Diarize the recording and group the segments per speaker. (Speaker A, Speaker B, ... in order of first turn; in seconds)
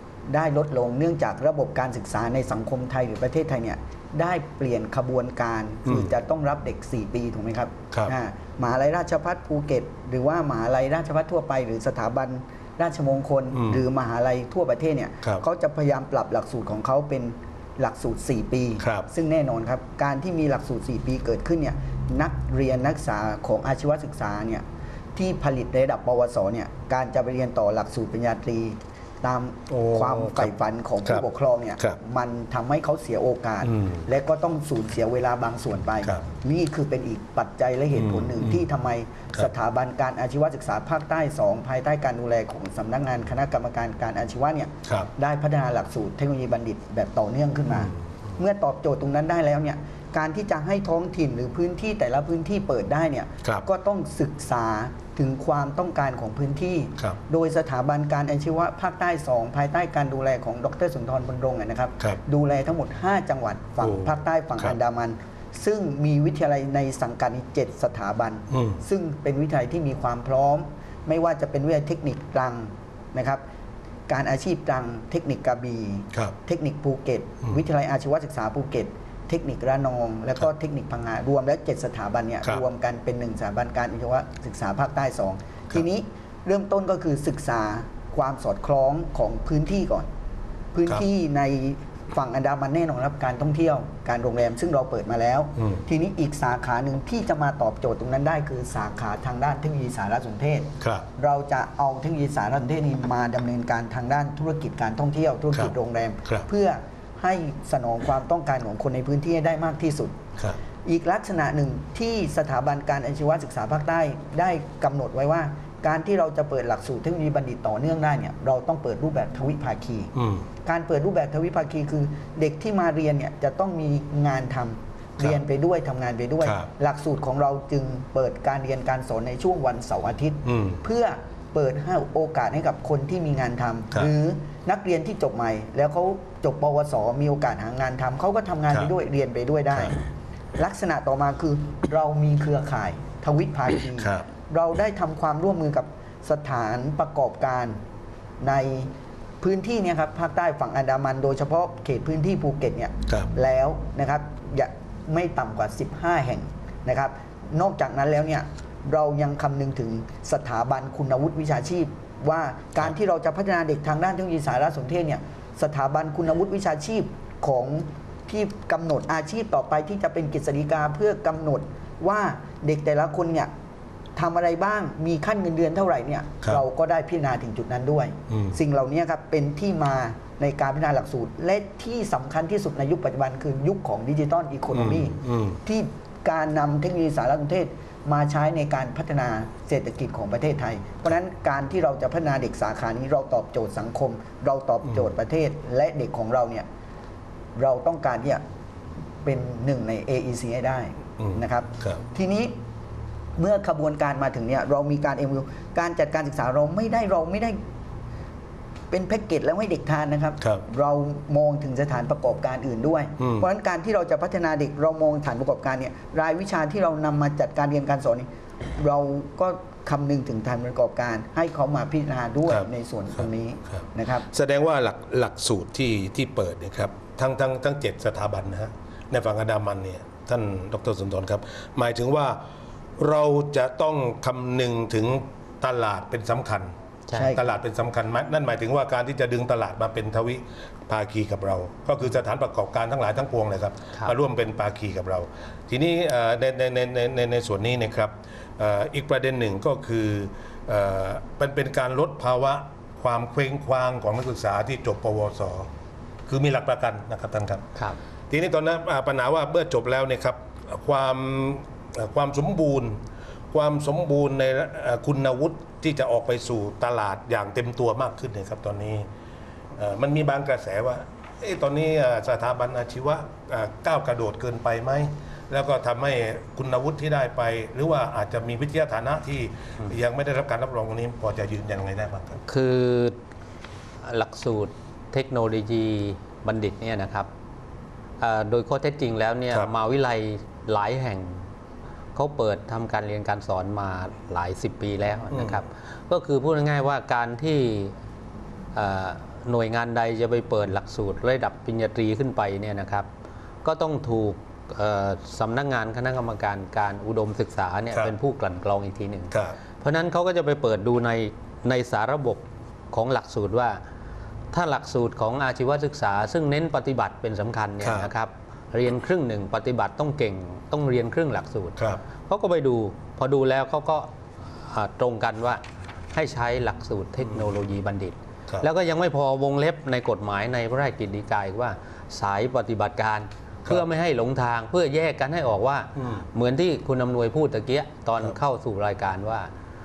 Speaker A: 0.2-24.6, 25.1-73.4, 74.1-90.1, 90.7-110.2, 110.8-120.1, 120.6-140.0, 140.6-147.8, 148.4-173.5, 174.2-196.7, 197.5-198.4, 199.2-202.6, 203.3-207.6, 208.9-224.3, 237.1-237.4
Speaker B: 5.8-6.1, 13.5-13.8, 18.8-19.1, 29.7-30.5, 33.6-34.0, 37.9-38.6, 44.9-45.1, 47.7-48.3, 63.8-64.8, 68.5-68.8, 95.6-95.8, 100.8-101.1, 120.1-120.5, 126.4-126.7, 130.4-130.8, 144.0-144.2, 178.3-178.6, 184.7-185.6, 201.2-202.0, 213.2-213.4, 223.7-232.4, 233.0-255.7, 256.3-257.7, 258.3-263.0, 263.5-269.1, 269.8-282.4, 295.3-295.6, 309.3-309.6, 317.8-318.1, 321.8-322.0, 335.9-336.2
Speaker C: 237.1-237.3, 282.5-283.2, 284.0-287.3, 288.2-291.5, 292.1-297.9, 298.7-303.1, 303.6-313.8, 314.5-325.6, 326.1-339.5